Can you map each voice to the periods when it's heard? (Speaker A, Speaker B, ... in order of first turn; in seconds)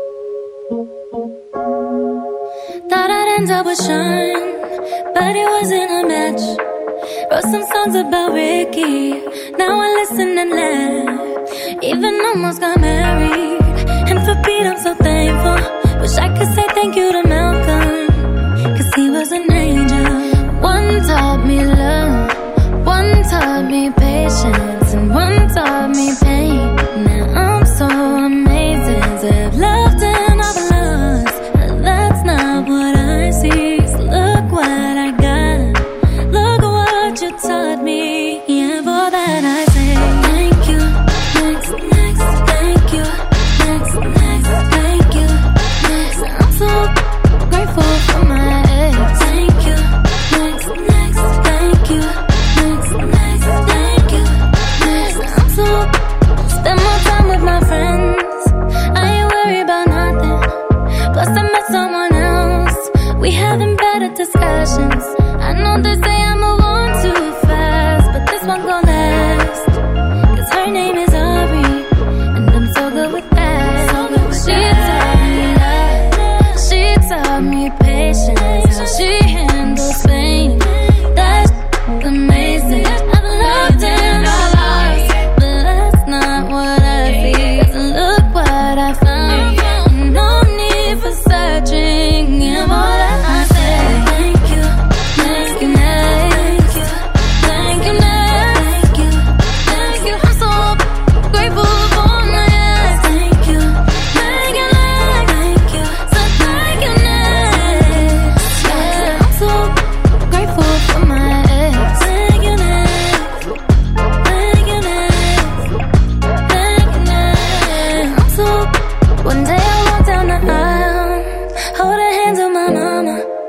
Speaker A: 2.9-6.6, 7.3-46.9, 47.5-55.9, 56.5-60.5, 61.1-69.7, 70.3-113.4, 114.2-115.7, 116.5-123.2